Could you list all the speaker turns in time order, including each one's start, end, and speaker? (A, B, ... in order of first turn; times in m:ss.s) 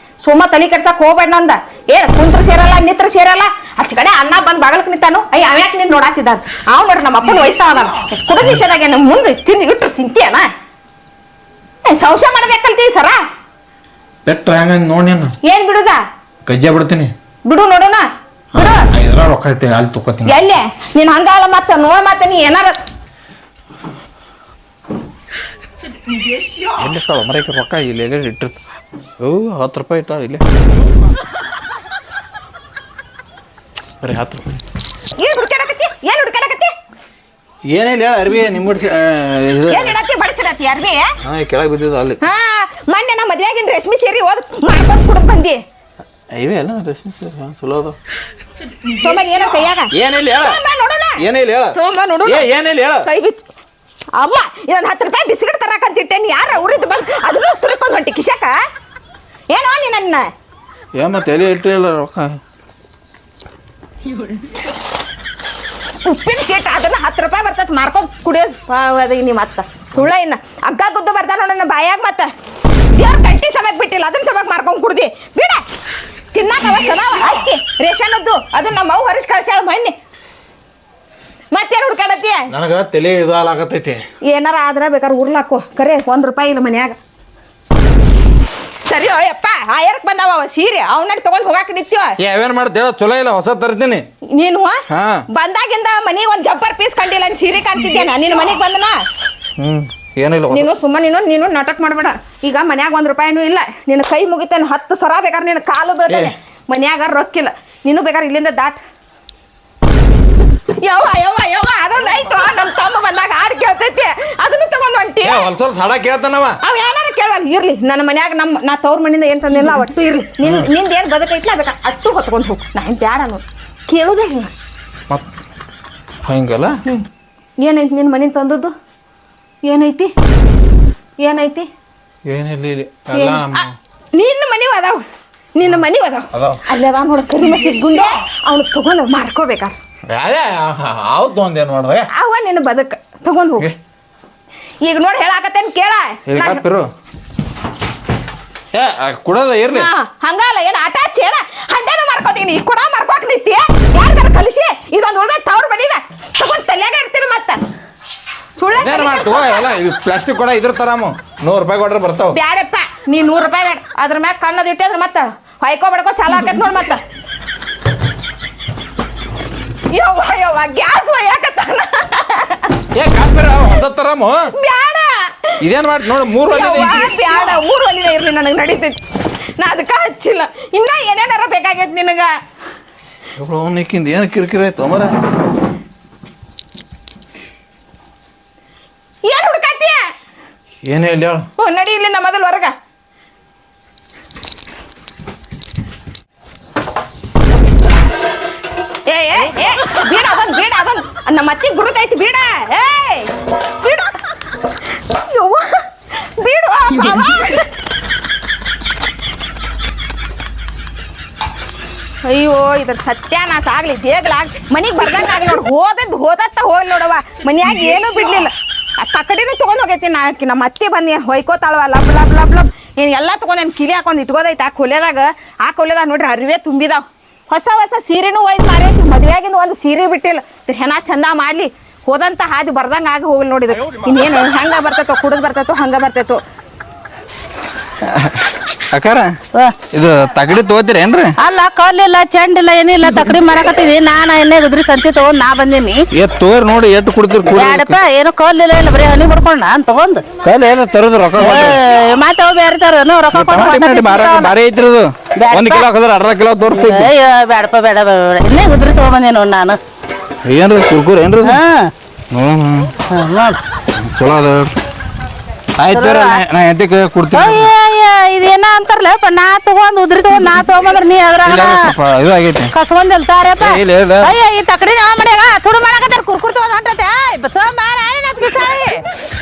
0:00.2-0:10.4 A
0:11.8-0:13.2 A
0:14.2-0:15.3 B
0:15.4-0:16.0 A
0:16.4-0:17.1 B
0:17.4-0:18.9 A
0:18.5-0:20.3 B
0:20.2-0:22.8 A
0:26.8-0:28.6 B
0:29.2-0:30.4 B
0:34.0-0:34.6 B
0:35.2-0:36.7 A
0:37.7-0:40.0 B
0:39.7-0:41.0 A
0:41.2-0:42.2 B
0:42.2-0:45.6 A
0:46.3-0:48.0 B
0:49.0-0:51.2 A
0:49.9-0:50.6 B
0:51.2-0:53.1 B
0:51.7-0:52.5 A
0:53.0-0:53.4 A
0:54.2-0:58.5 A
0:59.5-1:00.2 A
1:01.0-1:02.4 B
1:06.0-1:12.3 A
1:13.0-1:15.6 A
1:16.3-1:19.9 A
1:21.5-1:22.4 A
1:22.5-1:24.0 B
1:24.3-1:27.0 A
1:28.9-1:32.1 A
1:32.2-1:34.0 B
1:34.4-1:34.8 A
1:34.9-1:35.2 B
1:35.3-1:39.0 A
1:39.6-1:40.7 B
1:40.5-1:48.8 A
1:50.8-1:55.4 A
1:55.2-1:56.6 B
1:56.6-2:04.5 A
2:00.4-2:00.7 B
2:06.2-2:06.8 B
2:07.6-2:08.7 A
2:09.6-2:10.1 A
2:11.2-2:11.7 A
2:12.2-2:13.7 B
2:13.1-2:15.0 A
2:15.5-2:19.7 A
2:16.3-2:16.6 B
2:20.1-2:22.1 B
2:22.1-2:23.7 A
2:24.8-2:26.6 A
2:26.3-2:26.9 B
2:28.7-2:29.9 B
2:29.7-2:37.6 A
2:38.6-2:39.7 A
2:38.8-2:42.4 B
2:42.3-2:47.0 A
2:49.9-2:52.7 A
2:52.9-2:54.4 B
2:54.6-2:55.1 A
2:55.6-2:57.6 B
2:56.4-2:59.0 A
2:59.6-3:02.3 A
3:03.4-3:05.2 B
3:09.2-3:10.0 A
3:10.8-3:11.5 B
3:11.6-3:12.7 A
3:19.1-3:24.1 A
3:25.1-3:25.7 A
3:26.4-3:27.7 A
3:32.2-3:56.4 A
3:58.0-3:59.3 B
3:59.9-4:01.4 B
4:01.4-4:06.0 C
4:06.1-4:08.0 B
4:07.5-4:10.2 C
4:10.4-4:11.8 B
4:11.4-4:14.5 C
4:13.3-4:17.1 B
4:15.4-4:15.9 C
4:16.7-4:19.8 C
4:20.4-4:21.6 B
4:21.4-4:21.9 C
4:22.3-4:22.9 B
4:23.1-4:23.6 C
4:24.0-4:24.7 B
4:25.8-4:27.7 B
4:25.9-4:26.4 C
4:27.3-4:31.9 C
4:31.4-4:32.7 B
4:32.7-4:39.0 C
4:33.6-4:34.3 B